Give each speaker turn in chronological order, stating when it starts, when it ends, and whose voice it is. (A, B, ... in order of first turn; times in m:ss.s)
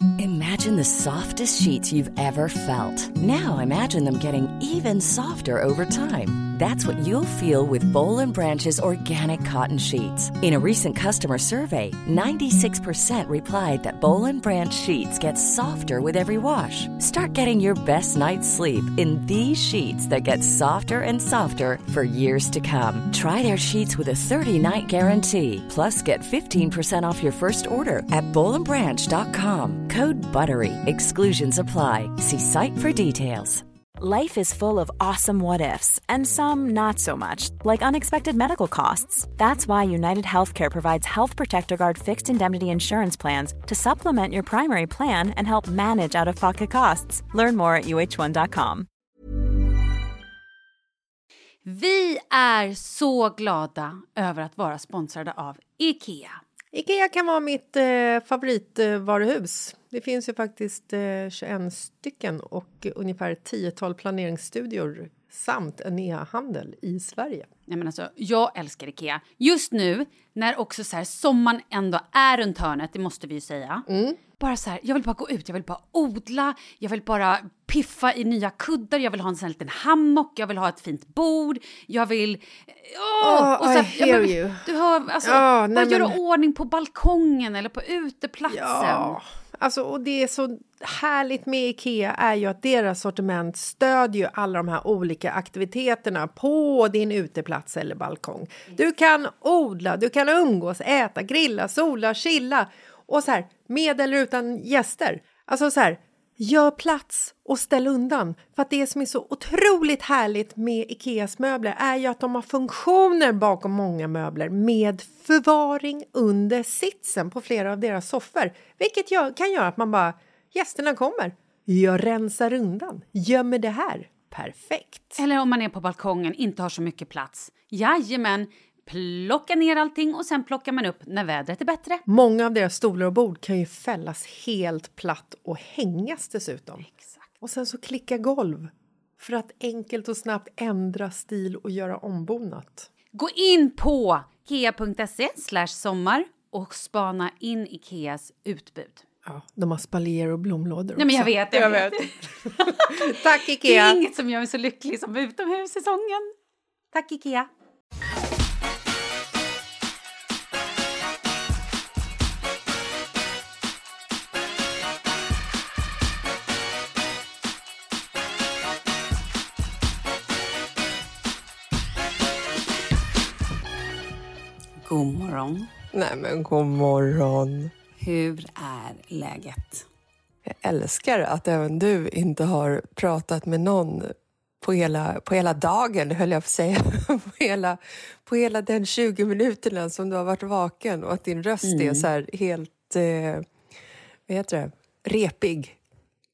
0:00.2-0:33.6 A
0:34.0-0:48.9 B
0:51.6-0:56.4 C
0:56.7-1:07.5 D
1:07.7-1:13.8 C
1:13.9-1:14.2 D
1:14.4-1:29.2 C
1:23.2-1:24.6 D
1:25.2-1:26.2 D
1:28.5-2:05.2 D
2:05.2-2:12.0 C
2:12.1-2:16.8 D
2:16.8-2:17.2 C
2:17.4-2:22.9 D
2:23.1-2:29.0 C
2:29.2-2:32.0 D
2:31.0-2:36.3 C
2:32.7-2:34.0 D
2:36.9-2:37.5 C
2:54.8-2:55.7 C
2:55.9-2:57.7 D
2:58.0-2:59.8 C
3:00.4-3:13.5 D
3:11.6-3:12.0 C
3:14.3-3:15.8 D